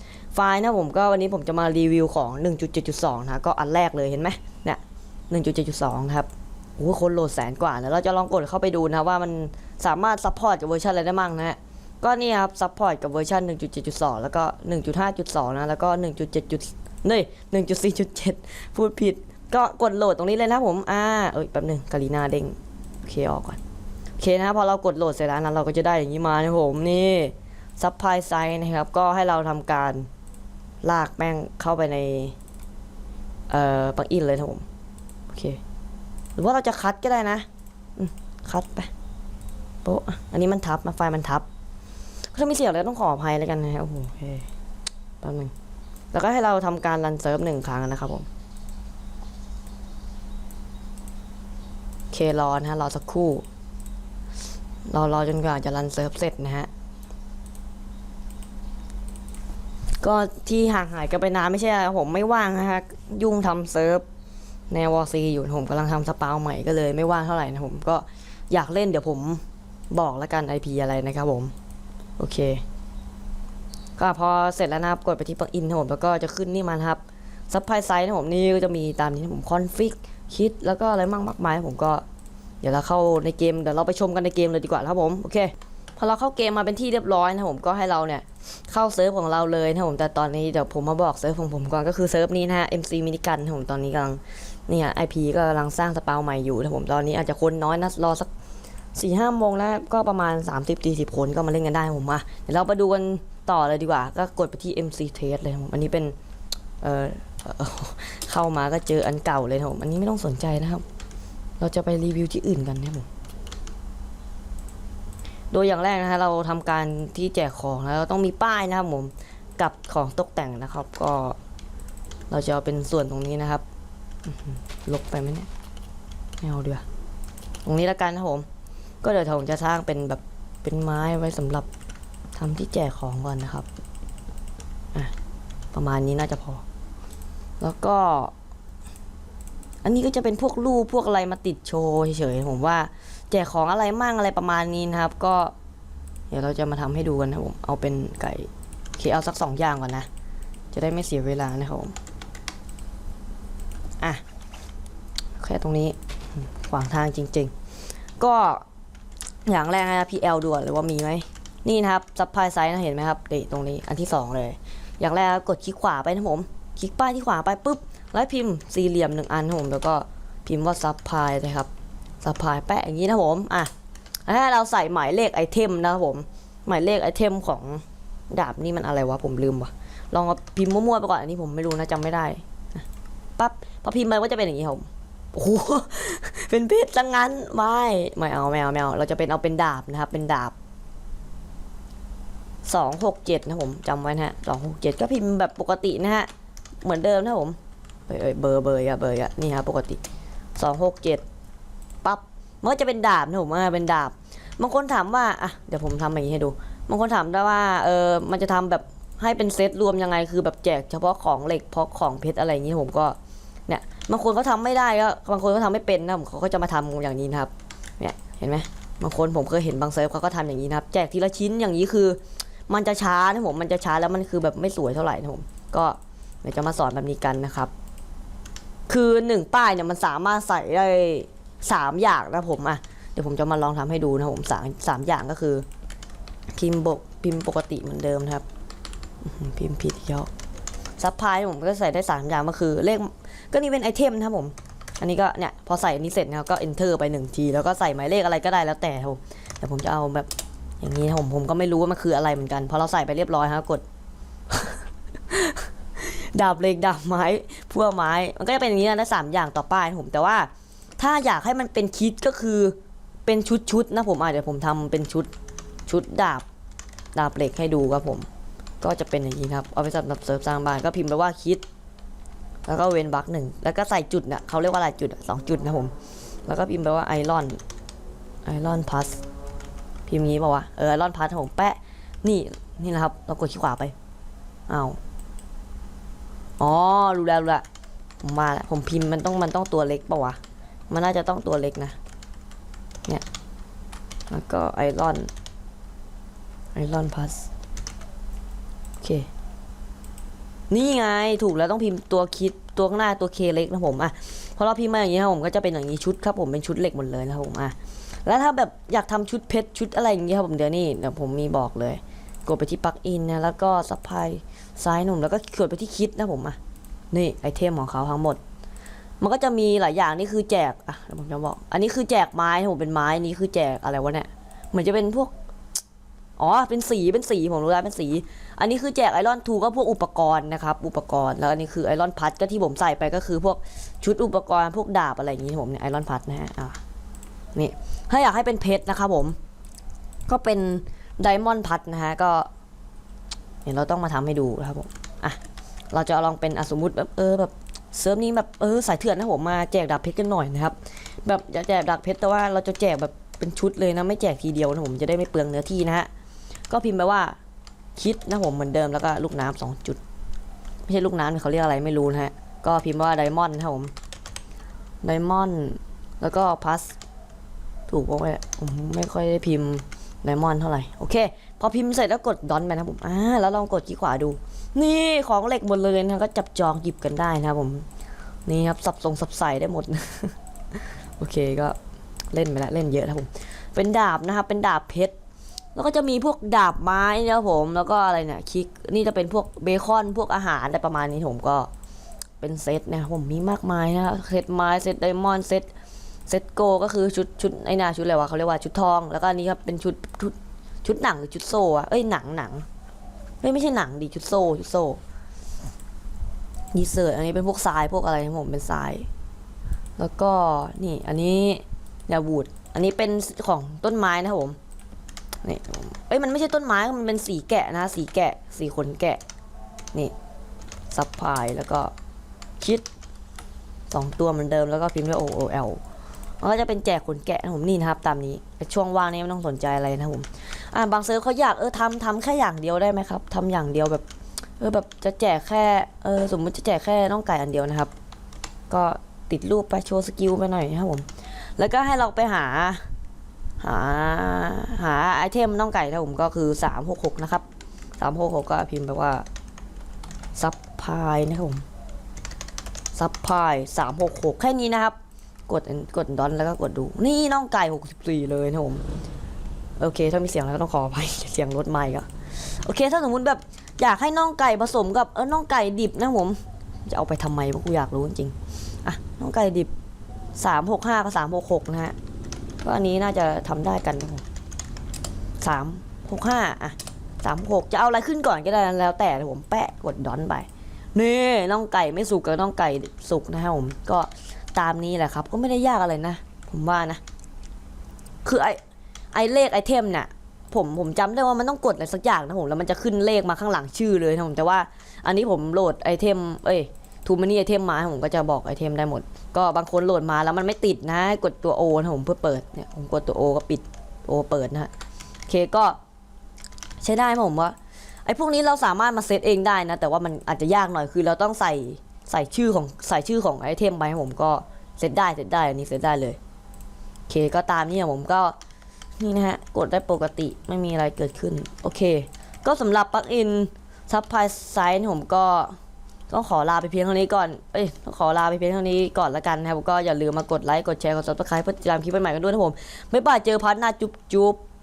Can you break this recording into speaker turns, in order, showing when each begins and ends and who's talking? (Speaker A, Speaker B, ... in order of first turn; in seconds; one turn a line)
Speaker A: 0.3-23.6
Speaker A: 24.2-30.1
Speaker A: 30.8-32.4
Speaker A: 33.5-34.6
Speaker A: 35.3-35.6
Speaker A: 36.4-38.9
Speaker A: 39.8-41.5
Speaker A: 42.3-44.5
Speaker A: 45.2-45.5
Speaker A: 46.1-48.3
Speaker A: 52.1-53.4
Speaker A: 54.9-56.7
Speaker A: 60.0-64.0
Speaker A: 64.7-71.5
Speaker A: 72.2-72.6
Speaker A: 74.0-82.0
Speaker A: 82.6-98.3
Speaker A: 98.9-106.1
Speaker A: 106.8-110.8
Speaker A: 111.6-113.1
Speaker A: 115.5-121.4
Speaker A: 122.3-123.6
Speaker A: 124.2-125.5
Speaker A: 126.4-126.8
Speaker A: 127.6-128.4
Speaker A: 129.0-131.7
Speaker A: 132.3-133.7
Speaker A: 135.7-136.6
Speaker A: 137.6-138.3
Speaker A: 139.8-145.5
Speaker A: 146.3-150.1
Speaker A: 150.7-151.9
Speaker A: 155.4-157.5
Speaker A: 158.2-158.6
Speaker A: 159.4-171.7
Speaker A: 172.2-173.7
Speaker A: 174.2-182.8
Speaker A: 183.4-190.5
Speaker A: 192.6-196.3
Speaker A: 196.8-197.6
Speaker A: 198.1-200.0
Speaker A: 200.6-201.2
Speaker A: 202.0-213.2
Speaker A: 213.7-227.7
Speaker A: 228.9-235.6
Speaker A: 236.5-238.4
Speaker A: 239.2-240.3
Speaker A: 241.0-250.3
Speaker A: 250.8-253.8
Speaker A: 254.5-265.3
Speaker A: 265.9-266.4
Speaker A: 267.1-268.3
Speaker A: 268.8-271.6
Speaker A: 272.6-275.9
Speaker A: 276.4-277.6
Speaker A: 278.4-279.2
Speaker A: 280.1-283.9
Speaker A: 284.7-285.0
Speaker A: 286.6-287.6
Speaker A: 288.2-290.4
Speaker A: 290.9-292.0
Speaker A: 294.3-295.3
Speaker A: 296.7-297.5
Speaker A: 299.0-299.3
Speaker A: 300.7-316.6
Speaker A: 317.1-318.4
Speaker A: 319.2-325.3
Speaker A: 326.4-336.8
Speaker A: 337.5-339.4
Speaker A: 340.3-342.5
Speaker A: 343.6-345.4
Speaker A: 345.9-356.1
Speaker A: 356.7-357.4
Speaker A: 357.9-360.0
Speaker A: 360.9-363.9
Speaker A: 365.0-367.0
Speaker A: 367.9-377.9
Speaker A: 378.4-381.8
Speaker A: 382.3-385.1
Speaker A: 385.7-391.7
Speaker A: 392.4-395.7
Speaker A: 396.3-402.6
Speaker A: 403.4-405.0
Speaker A: 406.7-409.1
Speaker A: 410.0-414.6
Speaker A: 415.4-419.2
Speaker A: 420.9-421.9
Speaker A: 422.6-422.9
Speaker A: 423.9-425.8
Speaker A: 426.4-434.0
Speaker A: 434.6-437.9
Speaker A: 438.7-442.9
Speaker A: 443.6-447.4
Speaker A: 448.0-449.2
Speaker A: 450.3-451.6
Speaker A: 452.9-454.9
Speaker A: 455.5-458.8
Speaker A: 459.8-469.7
Speaker A: 470.4-471.9
Speaker A: 472.6-474.2
Speaker A: 475.4-487.0
Speaker A: 488.2-488.6
Speaker A: 489.1-504.7
Speaker A: 505.3-505.8
Speaker A: 506.8-516.2
Speaker A: 517.1-518.4
Speaker A: 519.0-525.6
Speaker A: 526.1-534.4